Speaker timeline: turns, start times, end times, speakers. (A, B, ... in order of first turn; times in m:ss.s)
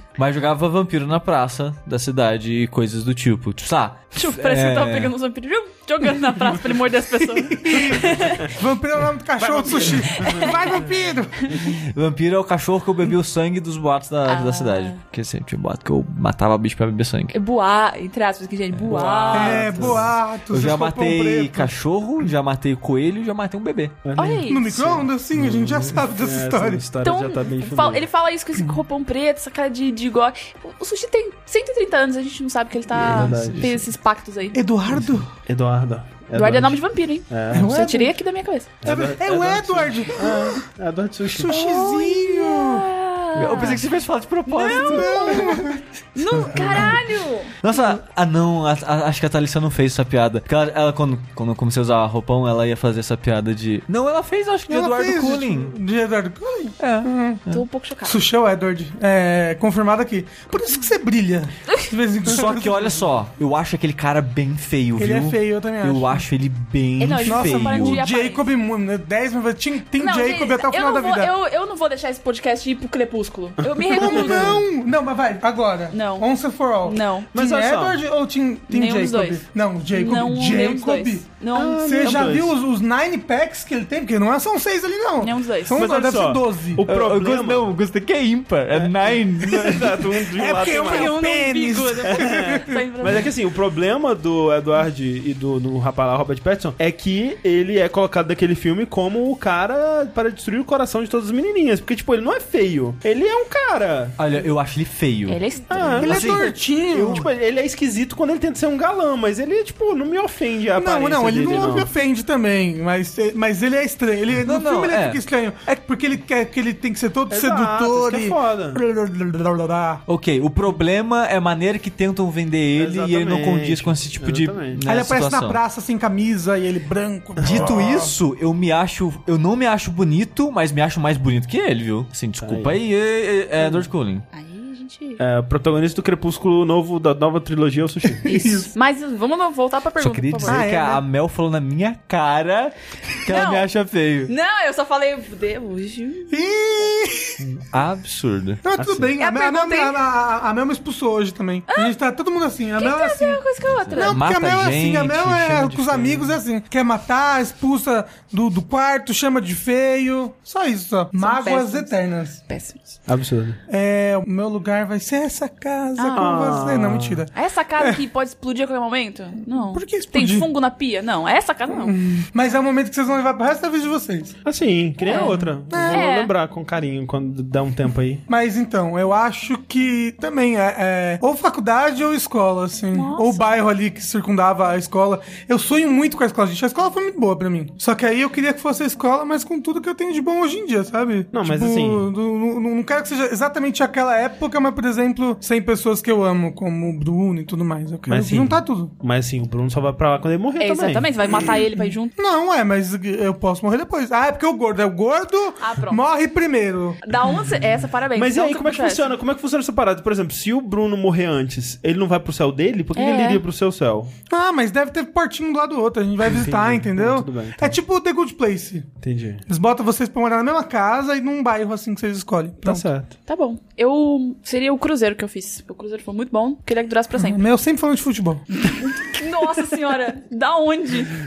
0:00.2-0:05.1 A
0:04.1-0:08.5 B
0:07.4-0:11.5 C
0:09.4-0:10.9 D
0:10.1-0:10.6 B
0:11.6-0:17.3 A
0:14.3-0:15.0 B
0:17.3-0:19.8 B
0:18.9-0:20.1 D
0:19.3-0:21.7 C
0:19.8-0:24.0 A
0:24.0-0:28.0 D
0:24.2-0:24.6 B
0:24.5-0:26.8 C
0:27.0-0:34.6 B
0:32.9-0:33.8 D
0:33.0-0:33.8 A
0:34.5-0:35.3 C
0:35.4-0:37.9 D
0:36.3-0:38.7 B
0:37.5-0:38.1 C
0:38.8-0:41.6 D
0:38.8-0:40.6 C
0:41.3-0:42.8 C
0:41.4-0:43.8 B
0:43.4-0:45.6 A
0:44.5-0:47.5 B
0:44.8-0:45.8 C
0:46.5-0:46.9 C
0:47.6-0:55.7 A
0:54.7-0:57.4 C
0:56.8-0:57.6 A
0:57.5-0:58.2 B
0:58.0-1:03.0 C
1:02.3-1:08.0 A
1:05.0-1:06.2 C
1:07.0-1:08.4 B
1:07.2-1:11.3 C
1:10.0-1:14.6 B
1:13.6-1:14.6 D
1:13.9-1:21.2 C
1:15.9-1:16.3 B
1:16.8-1:17.3 B
1:17.3-1:18.0 D
1:18.7-1:22.2 B
1:21.5-1:22.5 D
1:21.8-1:26.8 C
1:25.2-1:25.8 B
1:25.7-1:27.7 D
1:26.8-1:30.1 A
1:28.7-1:31.2 D
1:30.3-1:32.8 C
1:30.7-1:33.3 B
1:32.0-1:44.2 D
1:44.2-1:45.4 A
1:45.3-1:46.0 B
1:45.7-1:51.9 D
1:46.0-1:47.2 A
1:46.0-1:47.3 C
1:50.8-2:00.0 C
1:54.4-1:55.2 A
1:57.3-1:58.8 D
2:00.1-2:05.6 A
2:02.8-2:04.8 D
2:04.8-2:08.1 C
2:07.4-2:07.8 D
2:07.4-2:14.2 A
2:12.4-2:12.7 D
2:14.3-2:15.2 B
2:15.2-2:18.3 D
2:18.2-2:18.7 C
2:18.2-2:20.6 B
2:20.0-2:24.3 A
2:20.4-2:21.0 C
2:23.3-2:23.7 B
2:24.3-2:26.9 B
2:26.3-2:27.4 C
2:27.4-2:28.6 A
2:28.6-2:33.4 C
2:28.8-2:29.1 D
2:29.2-2:30.0 B
2:31.7-2:31.9 B
2:32.8-2:34.2 B
2:33.9-2:36.4 A
2:33.9-2:42.4 C
2:41.2-2:41.9 B
2:42.5-2:42.8 B
2:43.1-2:43.6 D
2:43.7-2:48.0 C
2:46.0-2:46.4 B
2:46.2-2:47.2 D
2:47.3-2:51.9 B
2:49.7-2:50.5 C
2:51.7-2:54.3 C
2:54.4-2:58.2 D
2:55.0-2:56.0 C
2:55.0-2:56.3 B
2:58.3-3:18.9 C
3:02.9-3:03.5 B
3:11.3-3:12.1 D
3:18.1-3:21.5 D
3:20.6-3:22.1 B
3:21.3-3:27.0 C
3:25.6-3:26.0 B
3:27.0-3:29.1 B
3:28.1-3:34.1 D
3:32.9-3:33.4 B
3:34.3-3:38.9 C
3:36.2-3:37.8 D
3:39.0-3:39.4 D
3:39.5-3:42.9 C
3:42.6-3:43.1 D
3:43.3-3:47.4 B
3:47.2-3:48.4 C
3:48.6-3:51.1 B